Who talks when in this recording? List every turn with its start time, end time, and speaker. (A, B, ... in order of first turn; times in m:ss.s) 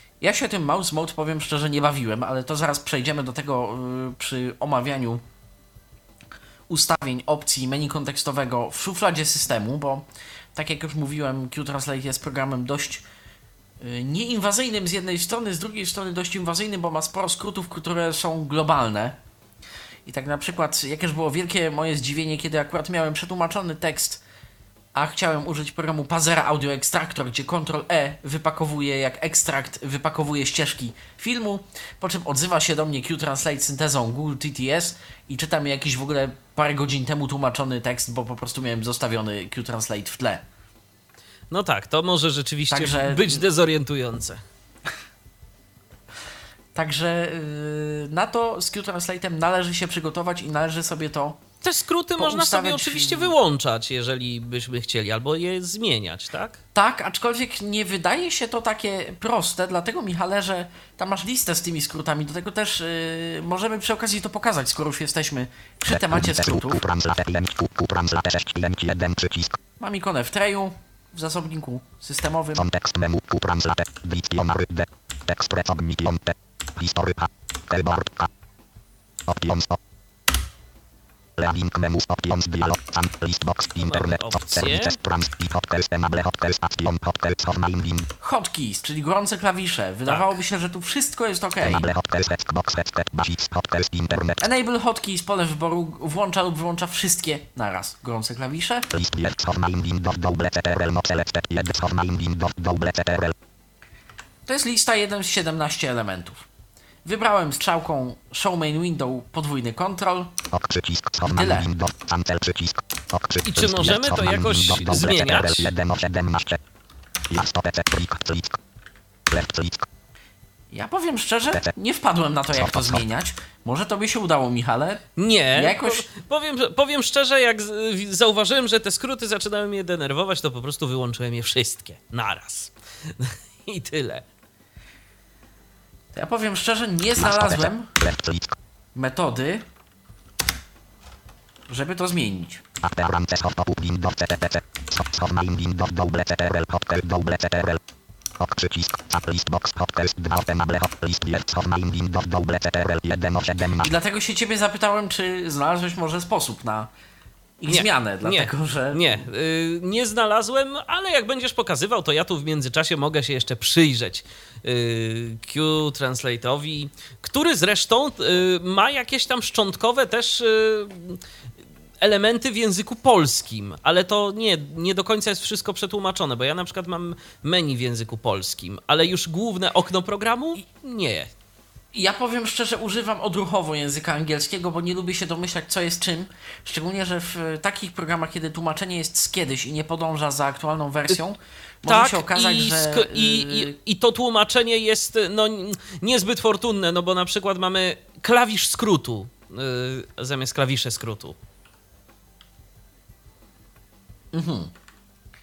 0:00.2-0:05.2 A
0:06.7-0:13.0 A
0:13.8-0:19.2 A
0:20.0-0:24.2 A
0:24.9-0:40.4 A
0:41.5-0:44.4 B
0:42.7-0:43.4 A
0:46.7-0:51.4 A
0:51.6-0:56.6 B
0:52.2-0:53.3 A
0:56.7-1:06.8 A
1:05.9-1:09.5 C
1:09.8-1:12.6 A
1:12.6-1:18.3 C
1:19.2-1:19.8 C
1:21.4-1:28.1 C
1:23.8-1:25.0 B
1:28.2-1:31.9 A
1:30.1-1:30.3 B
1:31.6-1:34.4 C
1:34.4-1:38.9 A
1:38.9-1:43.3 C
1:44.5-1:46.5 A
1:47.0-1:50.4 A
1:50.5-1:56.6 C
1:51.3-1:51.7 A
1:53.4-1:55.7 B
1:57.3-1:58.5 C
1:59.3-1:59.8 C
2:00.7-2:06.0 A
2:02.7-2:02.9 C
2:05.2-2:14.2 B
2:16.1-2:17.9 A
2:17.2-2:18.5 C
2:18.9-2:19.6 A
2:21.7-2:22.6 A
2:22.8-2:27.8 C
2:28.3-2:33.9 C
2:33.8-2:36.9 A
2:37.6-2:39.2 A
2:37.7-2:51.2 B
2:52.0-3:01.3 B
3:01.9-3:13.7 A
3:11.8-3:21.3 B
3:24.3-3:24.7 A